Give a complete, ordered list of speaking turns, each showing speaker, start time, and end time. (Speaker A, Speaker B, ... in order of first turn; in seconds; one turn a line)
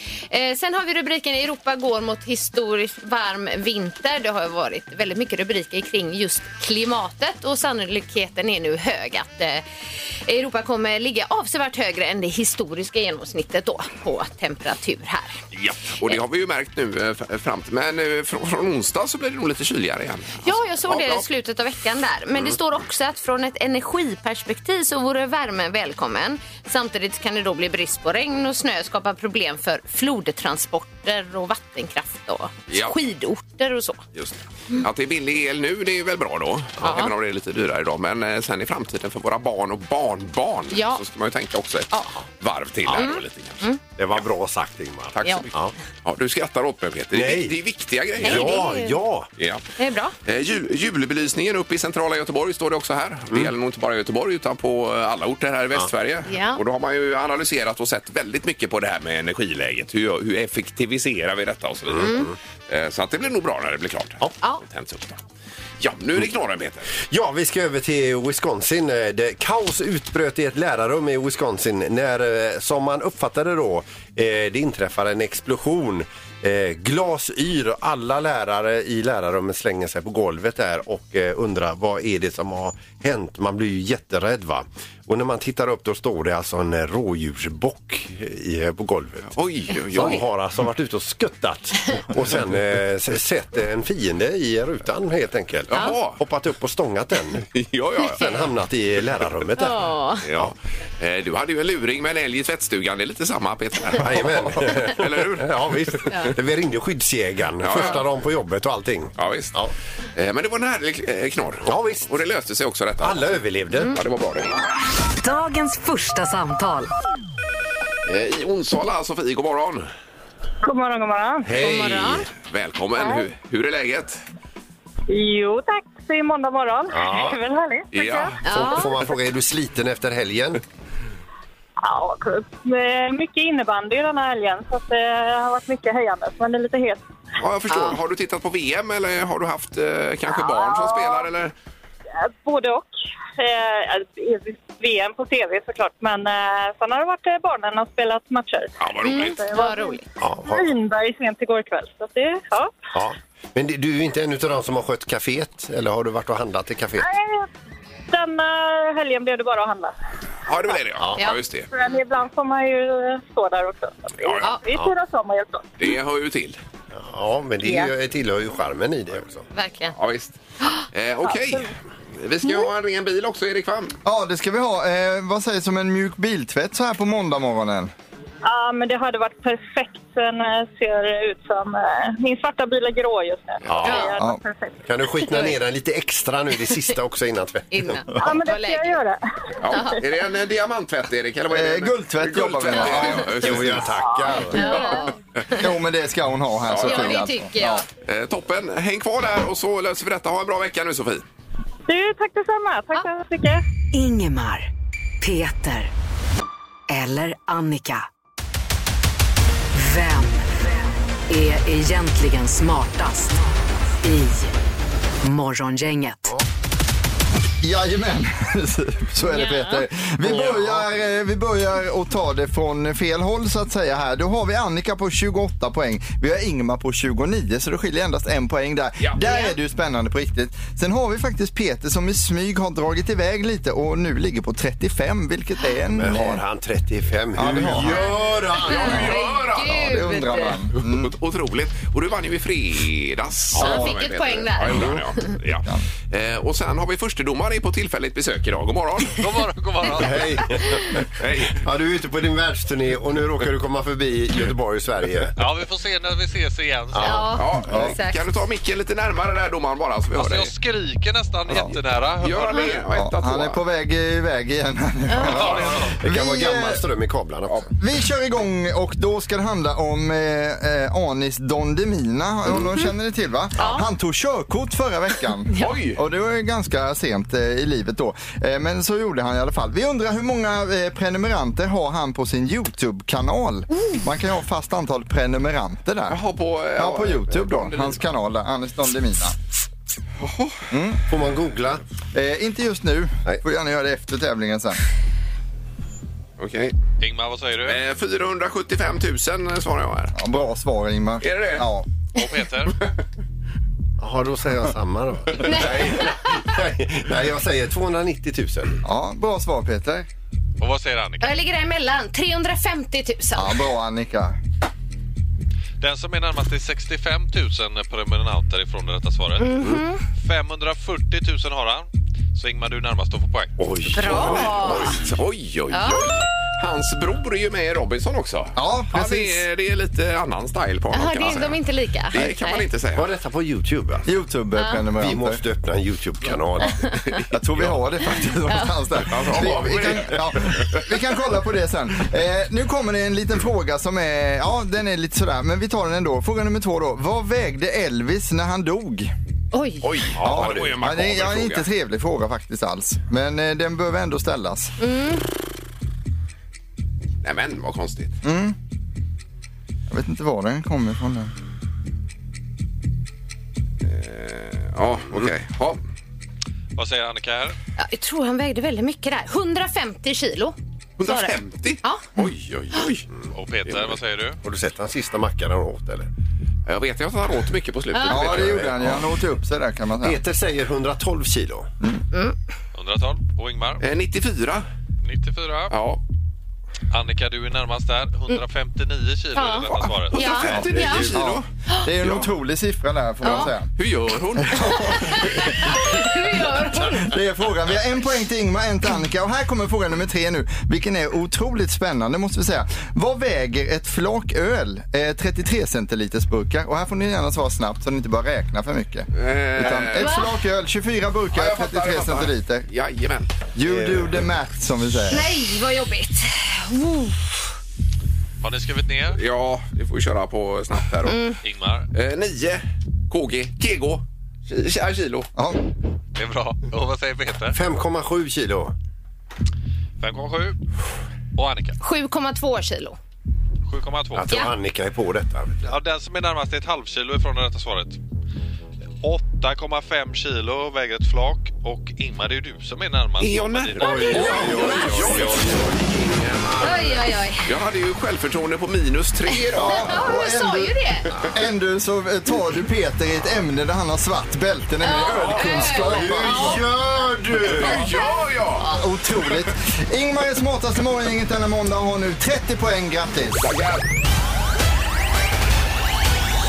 Speaker A: 0.2-9.6
Speaker A: 10.2-15.4
Speaker B: 15.5-21.2
Speaker A: 20.4-34.0
Speaker B: 34.1-43.6
Speaker A: 36.8-37.1
Speaker A: 40.7-41.0
Speaker C: 42.9-43.1
Speaker A: 42.9-43.8
Speaker C: 44.0-45.7
Speaker B: 45.1-45.5
Speaker B: 46.0-48.7
Speaker C: 47.1-47.5
Speaker C: 48.2-49.3
Speaker A: 48.2-49.0
Speaker B: 49.4-49.6
Speaker A: 49.8-50.1
Speaker B: 50.2-65.2
Speaker A: 56.3-56.6
Speaker C: 61.9-62.3
Speaker B: 65.8-66.9
Speaker C: 67.0-89.3
Speaker B: 89.3-90.2
Speaker C: 89.9-97.5
Speaker B: 95.7-96.2
Speaker B: 97.5-98.3
Speaker C: 98.1-100.5
Speaker A: 99.6-100.2
Speaker B: 100.2-106.2
Speaker C: 103.9-109.7
Speaker B: 107.6-108.0
Speaker B: 109.2-109.5
Speaker B: 110.1-114.5
Speaker C: 111.7-112.1
Speaker C: 113.0-113.9
Speaker D: 115.2-116.9
Speaker B: 118.0-119.9
Speaker E: 120.6-121.6
Speaker C: 121.4-122.3
Speaker A: 121.5-122.2
Speaker B: 122.3-124.2
Speaker E: 123.0-123.2
Speaker E: 125.1-128.4
Speaker C: 126.9-127.3
Speaker B: 127.9-128.4
Speaker A: 128.4-128.9
Speaker C: 128.4-130.6
Speaker E: 131.8-137.0
Speaker B: 137.4-141.5
Speaker A: 137.7-138.0
Speaker E: 140.4-141.2
Speaker E: 142.2-152.8
Speaker B: 148.8-149.4
Speaker A: 149.0-150.0
Speaker C: 150.2-150.7
Speaker C: 152.9-157.1
Speaker E: 157.0-157.5
Speaker E: 158.1-159.9
Speaker B: 160.4-161.7
Speaker E: 161.7-165.7
Speaker C: 164.4-164.9
Speaker B: 165.8-166.6
Speaker C: 166.9-169.5
Speaker E: 167.6-167.9
Speaker A: 169.5-169.9
Speaker B: 169.9-170.3
Speaker B: 170.9-173.9
Speaker F: 174.0-177.9
Speaker E: 178.4-184.8
Speaker C: 183.7-184.2
Speaker A: 183.8-184.1
Speaker C: 184.8-188.0
Speaker A: 187.7-189.0
Speaker E: 188.2-189.8
Speaker B: 189.6-193.9
Speaker A: 189.7-190.0
Speaker F: 191.5-193.6
Speaker C: 193.4-194.6
Speaker A: 194.5-195.2
Speaker B: 194.6-195.0
Speaker F: 195.6-197.8
Speaker B: 196.7-197.2
Speaker A: 196.8-197.8
Speaker B: 198.0-201.2
Speaker E: 201.9-203.6
Speaker D: 203.9-204.7
Speaker D: 205.2-205.9
Speaker D: 206.9-208.1
Speaker D: 209.7-210.7
Speaker D: 211.3-213.5
Speaker D: 214.0-214.5
Speaker D: 215.2-216.4
Speaker F: 217.6-236.4
Speaker A: 219.3-219.8
Speaker C: 235.9-239.2
Speaker F: 237.3-238.0
Speaker A: 237.8-240.6
Speaker B: 238.6-240.1
Speaker F: 239.6-241.1
Speaker B: 240.8-249.2
Speaker F: 243.6-243.9
Speaker A: 243.6-245.0
Speaker G: 249.1-250.6
Speaker C: 249.9-255.3
Speaker B: 251.2-251.6
Speaker G: 255.3-257.4
Speaker C: 256.9-257.3
Speaker A: 257.0-258.2
Speaker B: 257.3-260.5
Speaker F: 257.7-258.0
Speaker G: 260.1-262.8
Speaker B: 262.2-263.6
Speaker F: 262.9-266.8
Speaker A: 265.1-265.4
Speaker G: 265.3-265.9
Speaker B: 265.3-265.7
Speaker C: 265.9-267.7
Speaker F: 267.8-286.2
Speaker A: 273.6-273.9
Speaker B: 275.6-276.0
Speaker B: 286.1-288.0
Speaker F: 286.8-289.4
Speaker B: 290.2-290.6
Speaker F: 290.7-291.0
Speaker C: 291.1-291.8
Speaker F: 292.1-294.8
Speaker B: 296.4-296.8
Speaker G: 297.0-297.8
Speaker B: 297.6-300.1
Speaker F: 300.1-301.9
Speaker B: 301.2-301.7
Speaker G: 302.1-302.7
Speaker C: 304.0-308.8
Speaker A: 305.4-306.2
Speaker B: 305.5-306.0
Speaker F: 308.8-310.1
Speaker G: 310.6-311.3
Speaker A: 311.2-313.6
Speaker F: 313.3-314.4
Speaker G: 315.8-319.6
Speaker A: 319.4-320.0
Speaker G: 320.1-323.5
Speaker C: 323.6-325.1
Speaker A: 323.9-325.0
Speaker B: 324.0-331.6
Speaker A: 325.7-326.1
Speaker F: 328.6-329.4
Speaker A: 330.9-332.6
Speaker B: 332.1-333.1
Speaker C: 332.9-334.1
Speaker F: 334.0-335.4
Speaker A: 334.6-334.8
Speaker C: 335.0-336.7
Speaker A: 336.8-337.1
Speaker F: 337.3-349.1
Speaker A: 338.5-338.7
Speaker B: 339.0-340.8
Speaker A: 349.5-349.9
Speaker B: 349.8-351.6
Speaker C: 350.2-350.8
Speaker F: 350.2-354.7
Speaker A: 354.8-355.2
Speaker B: 357.2-358.1
Speaker F: 358.2-358.6
Speaker F: 359.9-361.3
Speaker B: 363.8-365.8
Speaker G: 366.7-367.6
Speaker A: 367.8-372.0
Speaker B: 371.0-373.1
Speaker G: 373.3-374.4
Speaker C: 374.4-376.1
Speaker B: 376.7-378.9
Speaker A: 377.9-378.2
Speaker F: 378.1-380.2
Speaker C: 378.3-378.9
Speaker C: 380.0-381.7
Speaker G: 382.7-383.8
Speaker B: 383.8-384.6
Speaker G: 385.0-385.7
Speaker B: 385.7-386.0
Speaker G: 386.9-390.4
Speaker A: 389.3-391.1
Speaker B: 389.7-391.4
Speaker F: 390.5-393.7
Speaker C: 390.6-391.2
Speaker B: 392.0-392.3
Speaker A: 393.2-393.5
Speaker B: 393.3-395.5
Speaker F: 394.4-395.4
Speaker A: 394.6-397.1
Speaker F: 396.8-412.7
Speaker B: 409.1-410.2
Speaker A: 409.9-410.3
Speaker B: 411.3-413.3
Speaker F: 413.5-415.2
Speaker C: 413.6-414.2
Speaker A: 415.1-417.4
Speaker G: 418.4-419.2
Speaker B: 419.1-421.2
Speaker A: 421.1-421.4
Speaker G: 421.4-421.9
Speaker B: 421.9-425.3
Speaker F: 425.3-425.6
Speaker G: 426.1-427.6
Speaker C: 427.5-428.7
Speaker G: 430.0-430.6
Speaker G: 431.3-431.8
Speaker A: 431.8-433.0
Speaker G: 433.7-434.4
Speaker C: 434.1-435.6
Speaker G: 435.6-438.0
Speaker G: 439.0-444.9
Speaker B: 443.2-446.8
Speaker C: 443.8-446.8
Speaker A: 443.8-445.2
Speaker F: 444.1-445.2
Speaker A: 446.6-447.5
Speaker B: 447.4-450.1
Speaker A: 449.3-451.1
Speaker F: 449.5-450.8
Speaker F: 451.3-456.6
Speaker A: 454.8-456.6
Speaker C: 455.7-457.9
Speaker B: 457.5-458.6
Speaker A: 457.9-458.1
Speaker F: 458.6-463.4
Speaker B: 463.4-463.8